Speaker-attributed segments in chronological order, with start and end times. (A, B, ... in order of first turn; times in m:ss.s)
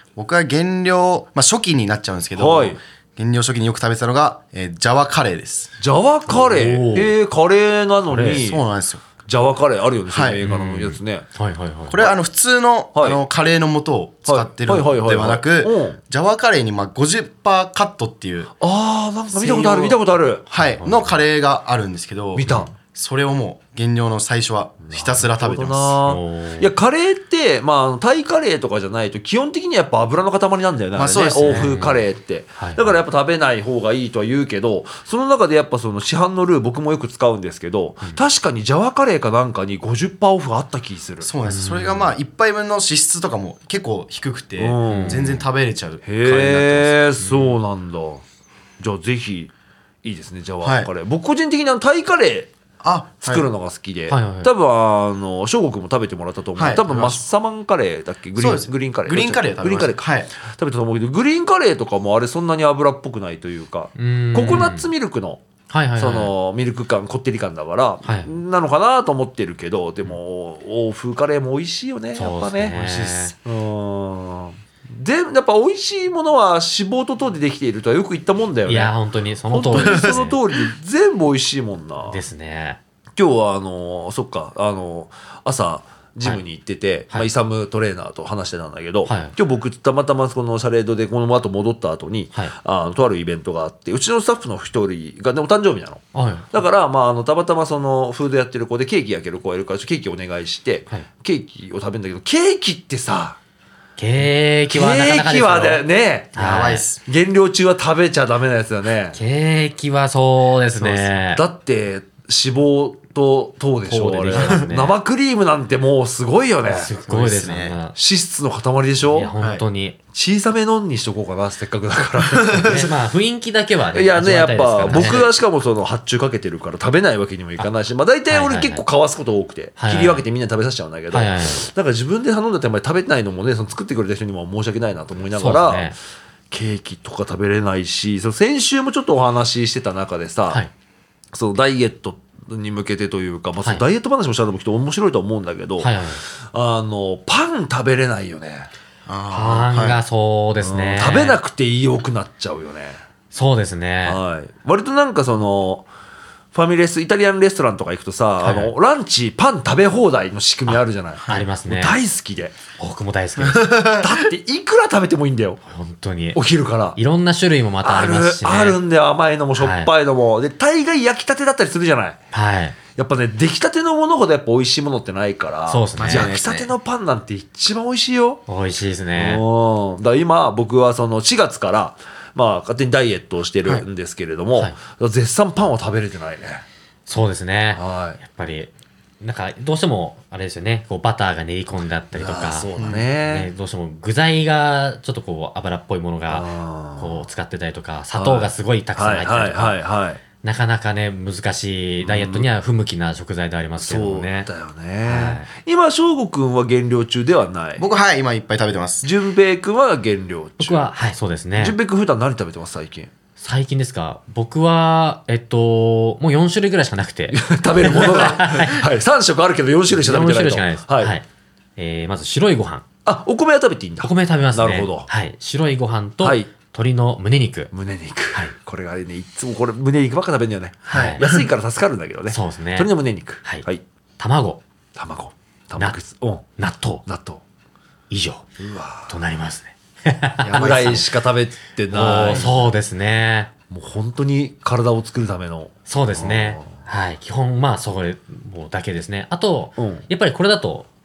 0:00.2-0:05.7 A
0:02.4-0:02.8 B
0:05.8-0:08.6 B
0:06.3-0:07.1 C
0:08.1-0:08.4 C
0:08.2-0:09.0 A
0:09.2-0:11.2 B
0:10.1-0:10.4 A
0:10.4-0:12.1 C
0:11.9-0:18.5 A
0:12.9-0:13.2 B
0:14.2-0:16.0 B
0:18.6-0:20.4 B
0:19.5-0:20.0 C
0:20.5-0:26.0 A
0:20.5-0:21.2 C
0:22.4-0:22.7 B
0:24.8-0:41.3 B
0:26.0-0:26.7 C
0:30.9-0:31.7 A
0:31.4-0:32.0 C
0:32.6-0:33.0 C
0:41.2-0:47.0 A
0:41.4-0:42.1 C
0:44.6-0:45.2 B
0:44.9-0:45.4 C
0:46.0-0:48.2 B
0:47.2-0:47.6 C
0:48.8-0:49.5 B
0:50.0-0:52.5 B
0:50.6-0:50.9 A
0:52.8-0:53.5 A
0:53.2-1:05.4 B
0:54.1-0:54.5 C
0:56.6-0:57.2 A
0:58.4-1:00.3 A
1:04.0-1:04.9 C
1:05.7-1:06.3 C
1:06.0-1:12.7 B
1:08.0-1:08.3 C
1:12.1-1:13.3 C
1:12.7-1:13.3 A
1:13.4-1:18.9 B
1:18.7-1:20.4 C
1:19.5-1:22.2 B
1:19.7-1:20.2 A
1:22.1-1:22.8 C
1:23.2-1:43.4 B
1:29.0-1:29.3 C
1:36.1-1:36.5 C
1:44.0-1:46.8 C
1:44.7-1:46.4 B
1:46.4-1:47.0 A
1:47.0-1:49.2 B
1:49.1-1:51.4 C
1:50.7-1:56.9 B
1:53.9-1:55.0 C
1:54.3-1:54.7 A
1:56.7-1:58.0 C
1:57.0-1:57.8 A
1:57.9-1:59.3 B
1:59.0-2:00.0 C
2:00.1-2:02.9 B
2:02.3-2:02.8 A
2:02.6-2:05.3 C
2:03.9-2:15.9 B
2:05.0-2:05.2 A
2:08.3-2:08.8 C
2:09.8-2:10.2 C
2:11.1-2:11.6 C
2:15.4-2:16.0 C
2:16.5-2:20.6 B
2:21.3-2:28.7 B
2:25.8-2:26.2 C
2:29.0-2:30.0 A
2:29.3-2:31.4 C
2:30.6-2:33.0 B
2:33.3-2:34.2 C
2:34.0-2:35.9 B
2:36.5-2:42.6 B
2:38.4-2:38.7 C
2:40.7-2:42.0 C
2:42.8-2:44.0 C
2:43.4-2:44.1 A
2:44.0-2:45.6 B
2:45.7-2:46.4 C
2:46.3-2:47.0 B
2:47.0-2:48.8 C
2:47.8-2:52.2 B
2:49.6-2:49.9 C
2:52.3-2:52.8 C
2:52.9-2:58.4 B
2:55.7-2:56.3 C
2:56.0-2:56.7 A
2:58.5-2:59.4 C
2:59.1-3:06.6 B
3:07.1-3:12.7 C
3:07.7-3:08.2 B
3:12.1-3:13.5 B
3:12.8-3:13.1 A
3:13.2-3:16.5 C
3:16.3-3:17.2 B
3:17.0-3:19.8 C
3:18.1-3:20.2 B
3:20.4-3:24.5 C
3:22.0-3:22.5 B
3:23.8-3:27.8 B
3:25.0-3:25.5 C
3:27.8-3:29.1 A
3:29.0-3:30.9 B
3:30.6-3:31.8 C
3:31.6-3:33.1 B
3:33.4-3:38.9 C
3:37.3-3:41.1 B
3:39.9-3:41.2 C
3:41.8-3:42.8 C
3:43.0-3:45.1 B
3:44.0-3:47.7 C
3:46.2-3:46.5 B
3:47.7-3:53.8 B
3:50.9-3:51.5 A
3:50.9-3:51.2 C
3:52.3-3:53.6 C
3:54.2-3:54.6 C
3:55.0-3:57.4 B
3:56.6-3:57.0 C
3:58.1-3:58.4 C
3:58.6-3:59.2 B
3:59.1-4:01.1 C
4:00.4-4:01.0 A
4:00.5-4:02.7 B
4:01.9-4:03.5 C
4:03.7-4:06.8 B
4:05.9-4:10.9 C
4:09.8-4:10.0 B